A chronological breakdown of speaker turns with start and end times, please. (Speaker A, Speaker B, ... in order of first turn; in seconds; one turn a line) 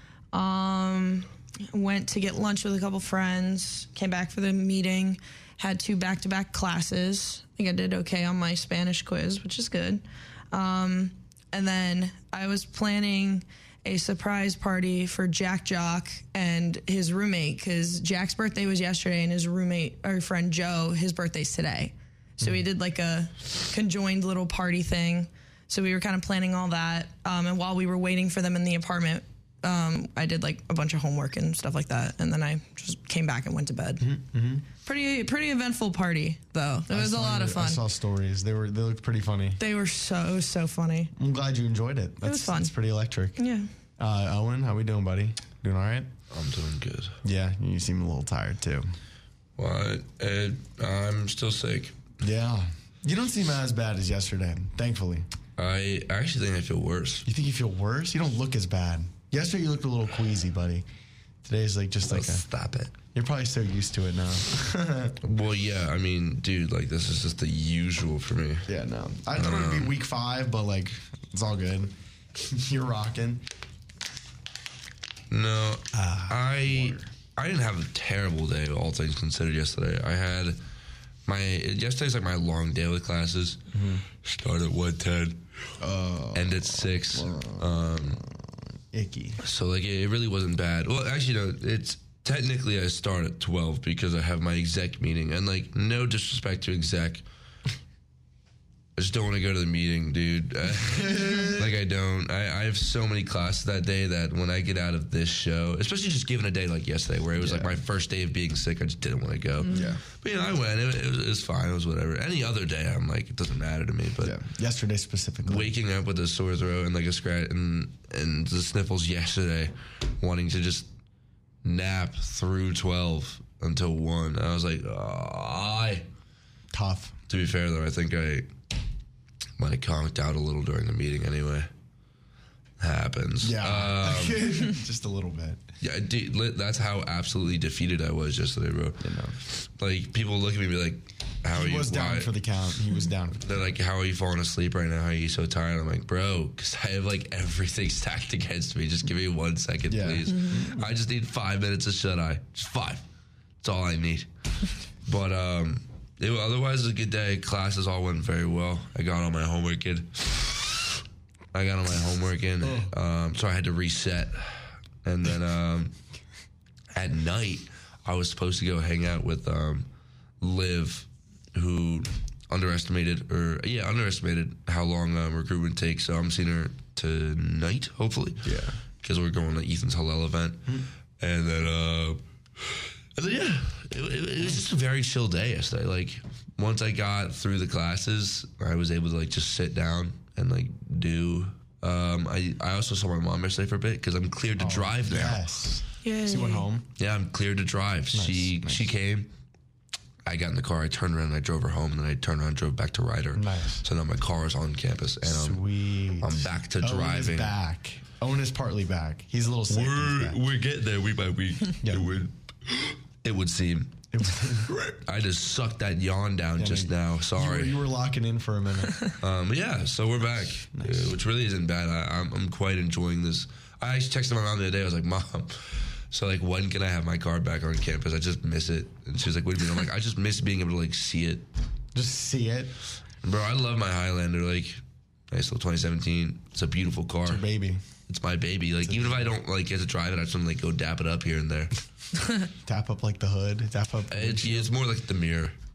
Speaker A: 0.3-34.0
Speaker B: 34.0-34.6
Speaker A: 34.8-37.8
Speaker B: 36.9-39.6
Speaker A: 39.6-41.1
Speaker B: 41.1-43.4
Speaker A: 42.2-42.7
Speaker A: 43.4-43.7
Speaker B: 44.0-46.1
Speaker C: 46.3-47.1
Speaker B: 47.2-48.8
Speaker C: 49.6-52.0
Speaker B: 52.2-55.3
Speaker C: 55.6-57.2
Speaker B: 57.2-60.9
Speaker B: 61.4-62.4
Speaker C: 62.0-62.9
Speaker B: 63.1-65.2
Speaker C: 65.2-68.7
Speaker B: 68.7-73.4
Speaker C: 69.3-70.0
Speaker C: 75.3-80.6
Speaker B: 75.9-77.0
Speaker C: 81.3-83.6
Speaker B: 83.7-84.0
Speaker C: 84.2-85.4
Speaker B: 85.8-88.2
Speaker C: 86.3-88.2
Speaker B: 88.9-89.4
Speaker C: 89.4-97.2
Speaker C: 99.0-114.4
Speaker B: 100.8-101.7
Speaker B: 107.4-107.8
Speaker B: 109.7-110.0
Speaker B: 114.2-115.7
Speaker C: 115.5-120.9
Speaker C: 121.6-126.0
Speaker B: 126.7-127.1
Speaker C: 127.3-128.5
Speaker C: 129.6-131.7
Speaker C: 132.8-134.4
Speaker B: 133.4-135.6
Speaker C: 135.8-139.0
Speaker B: 139.0-139.3
Speaker C: 139.8-142.3
Speaker B: 141.5-143.5
Speaker C: 143.4-153.0
Speaker B: 149.9-150.9
Speaker A: 150.3-150.6
Speaker C: 153.6-154.3
Speaker C: 155.1-160.6
Speaker C: 161.5-165.9
Speaker B: 162.6-162.9
Speaker C: 166.9-169.9
Speaker C: 170.4-178.4
Speaker B: 178.4-178.8
Speaker C: 179.0-180.7
Speaker C: 181.2-195.4
Speaker B: 194.6-196.9
Speaker A: 196.0-196.7
Speaker C: 197.0-199.3
Speaker B: 198.1-198.8
Speaker C: 200.2-205.6
Speaker B: 203.3-203.8
Speaker B: 205.2-210.4
Speaker C: 206.2-207.5
Speaker C: 209.7-214.0
Speaker B: 211.8-212.1
Speaker B: 214.1-214.8
Speaker C: 214.7-217.8
Speaker B: 216.6-219.1
Speaker C: 219.2-231.4
Speaker B: 220.7-221.2
Speaker B: 231.9-232.7
Speaker C: 233.2-237.4
Speaker B: 237.2-237.8
Speaker C: 238.1-241.7
Speaker B: 238.8-239.3
Speaker B: 242.6-244.7
Speaker C: 244.1-245.5